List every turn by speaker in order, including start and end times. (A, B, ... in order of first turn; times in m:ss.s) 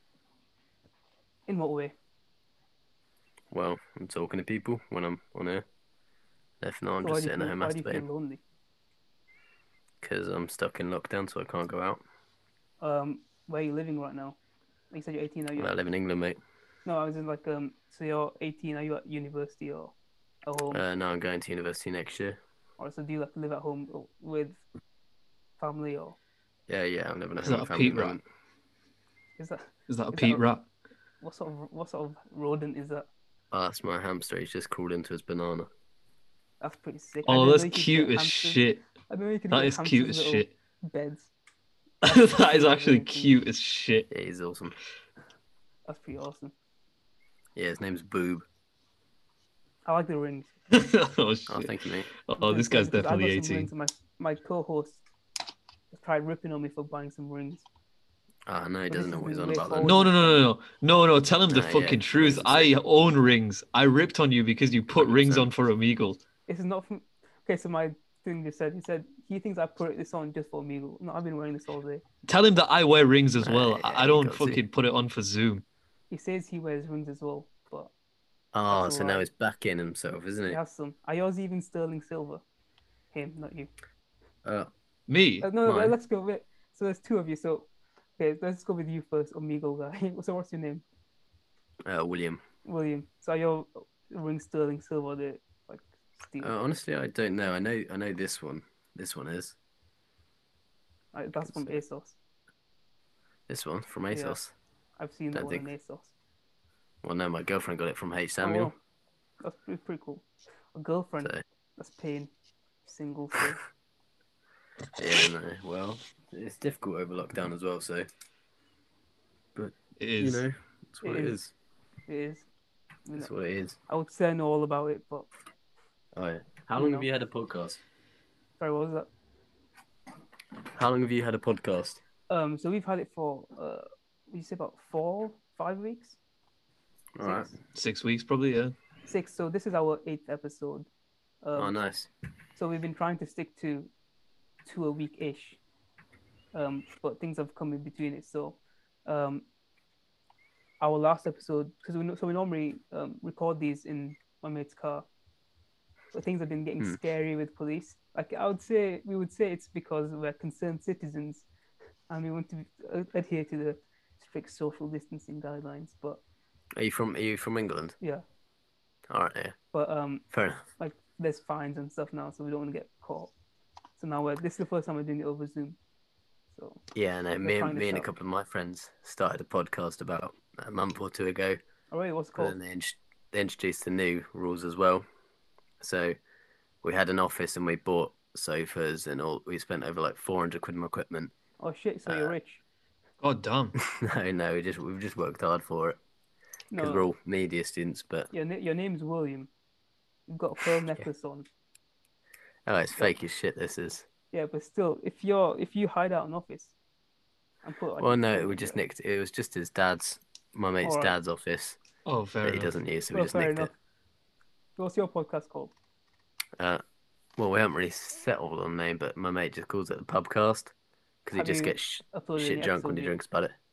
0:01.5-0:01.9 A
0:03.5-0:05.6 B
0:06.6-0:08.1 B
0:07.0-0:08.4 A
0:10.0-0:12.0 B
0:12.8-0:14.4 A
0:14.9-0:15.7 A
0:15.6-0:16.4 B
0:16.8-0:19.9 A
0:20.5-0:20.8 A
0:20.7-0:22.4 B
0:22.8-0:24.6 A
0:25.6-0:26.2 A
0:26.7-0:28.2 B
0:27.4-0:28.2 C
0:29.4-0:30.4 A
0:29.9-0:30.6 C
0:31.2-0:33.1 A
0:33.5-0:35.7 B
0:36.6-0:41.3 A
0:37.3-0:38.8 C
0:39.5-0:40.5 C
0:42.0-0:44.1 C
0:42.1-0:43.4 A
0:44.1-0:44.7 B
0:45.9-0:46.5 A
0:47.6-0:48.4 B
0:49.8-0:50.5 A
0:50.7-0:53.7 C
0:51.5-0:52.1 B
0:52.4-0:55.0 A
0:55.9-0:57.6 A
0:58.5-1:00.0 B
0:58.9-1:00.4 A
0:59.8-1:06.2 C
1:01.5-1:02.7 B
1:05.0-1:05.5 B
1:06.5-1:12.0 A
1:12.3-1:15.6 C
1:13.4-1:14.6 B
1:16.1-1:17.9 A
1:18.5-1:20.6 B
1:18.7-1:19.3 A
1:20.5-1:22.4 A
1:23.1-1:23.7 A
1:24.4-1:24.7 B
1:25.1-1:25.5 C
1:25.4-1:27.7 A
1:25.6-1:26.0 B
1:28.2-1:30.8 A
1:31.8-1:32.4 B
1:32.6-1:36.6 A
1:36.4-1:39.6 B
1:41.1-1:42.2 A
1:41.4-1:41.8 B
1:43.5-1:44.5 B
1:44.1-1:44.4 A
1:45.0-1:46.1 A
1:45.3-1:45.7 B
1:47.0-1:48.7 B
1:48.4-1:48.8 A
1:49.4-1:52.3 A
1:52.8-1:53.6 A
1:55.0-1:58.1 B
1:59.6-2:01.5 B
2:00.0-2:00.4 C
2:01.0-2:01.4 A
2:02.1-2:02.4 A
2:03.2-2:03.8 B
2:03.9-2:05.3 A
2:06.2-2:07.8 B
2:06.8-2:07.1 A
2:08.6-2:09.1 A
2:10.8-2:12.0 B
2:12.3-2:16.2 A
2:17.2-2:17.5 B
2:17.2-2:17.6 A
2:17.7-2:18.7 C
2:19.1-2:20.9 A
2:21.4-2:21.8 A
2:21.6-2:22.1 B
2:22.6-2:23.9 A
2:24.6-2:25.6 A
2:26.5-2:29.4 A
2:30.8-2:35.1 A
2:36.1-2:41.4 A
2:42.1-2:46.2 A
2:46.8-2:48.0 B
2:49.1-2:49.6 B
2:49.7-2:50.2 A
2:50.3-2:50.6 B
2:50.8-2:53.3 A
2:54.0-2:55.8 A
2:56.5-2:56.8 A
2:56.9-3:01.6 B
2:57.4-2:58.1 A
3:01.9-3:02.6 A
3:02.4-3:05.1 B
3:05.8-3:06.2 B
3:06.8-3:11.3 B
3:11.6-3:12.6 A
3:12.1-3:12.4 B
3:13.2-3:13.8 C
3:13.8-3:16.0 B
3:16.7-3:17.1 A
3:16.7-3:18.3 B
3:18.3-3:19.5 A
3:20.3-3:21.5 A
3:22.6-3:24.1 B
3:24.3-3:26.7 A
3:27.6-3:28.8 A
3:28.0-3:31.8 B
3:30.8-3:31.1 A
3:32.0-3:32.8 C
3:32.4-3:33.7 B
3:33.1-3:33.7 A
3:34.8-3:35.7 A
3:37.4-3:40.7 B
3:41.2-3:43.5 B
3:41.3-3:43.2 A